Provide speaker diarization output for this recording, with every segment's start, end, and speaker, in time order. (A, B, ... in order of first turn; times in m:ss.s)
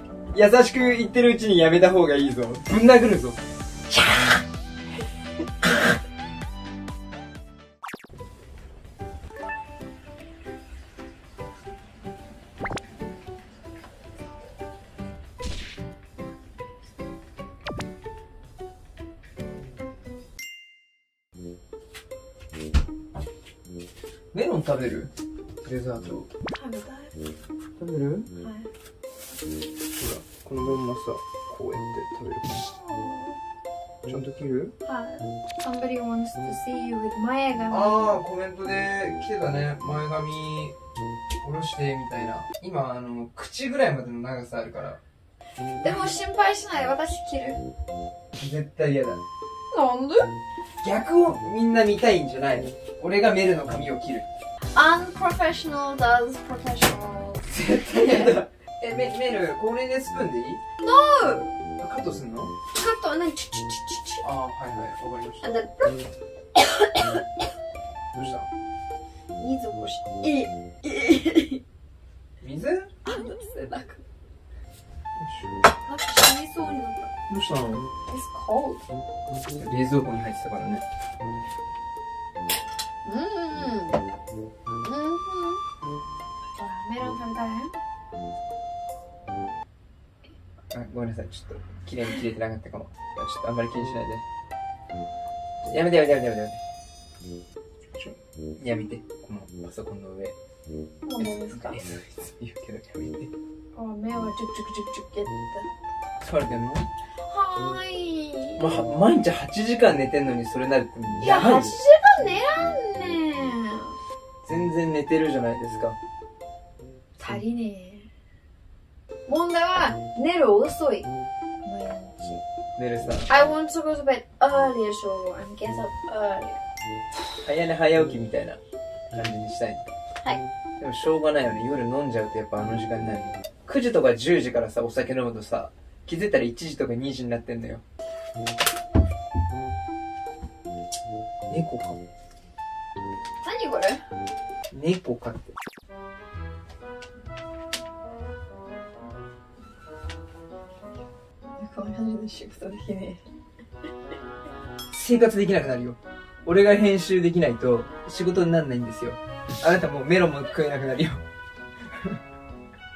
0:00.3-0:03.4 A
0:04.0-0:04.2 B
0:24.3-0:25.1 A
0:25.6-0:26.3 A
0:26.5-0:27.2 B
0:27.8-0:28.3 A
0:28.4-0:28.7 B
0:30.0-0:32.7 A
0:32.6-0:33.4 B
0:34.1-0:34.7 A
0:34.8-0:38.2 B
0:37.7-0:40.8 A
0:41.4-0:45.0 A
0:45.8-0:47.6 B
0:48.4-0:49.2 A
0:49.7-0:50.3 B
0:50.8-0:54.3 A
0:54.7-0:58.4 B
0:57.5-1:00.6 A
1:00.8-1:01.5 B
1:01.8-1:02.5 A
1:02.7-1:04.3 B
1:04.2-1:05.5 A
1:05.4-1:06.0 B
1:06.6-1:07.3 B
1:08.2-1:08.5 A
1:09.4-1:11.6 B
1:12.4-1:12.9 A
1:13.0-1:14.0 B
1:15.2-1:15.5 A
1:15.9-1:17.1 B
1:17.3-1:17.9 A
1:18.1-1:18.8 B
1:19.5-1:20.8 A
1:23.0-1:24.0 B
1:24.8-1:25.6 B
1:26.6-1:27.7 B
1:30.7-1:34.2 A
1:35.6-1:36.6 A
1:38.0-1:40.4 A
1:41.1-1:41.8 B
1:41.2-1:43.3 A
1:43.8-1:45.7 B
1:46.2-1:46.9 A
1:47.3-1:48.6 B
1:48.6-1:51.7 A
1:51.2-1:54.0 B
1:54.4-1:56.0 A
1:57.2-1:58.1 B
1:59.3-2:01.1 B
2:01.6-2:02.4 B
2:02.8-2:03.3 A
2:03.3-2:06.6 B
2:07.4-2:08.6 A
2:09.1-2:09.8 A
2:10.8-2:17.8 A
2:21.5-2:22.0 A
2:23.4-2:24.0 B
2:24.7-2:25.6 A
2:31.6-2:33.2 B
2:34.9-2:41.2 A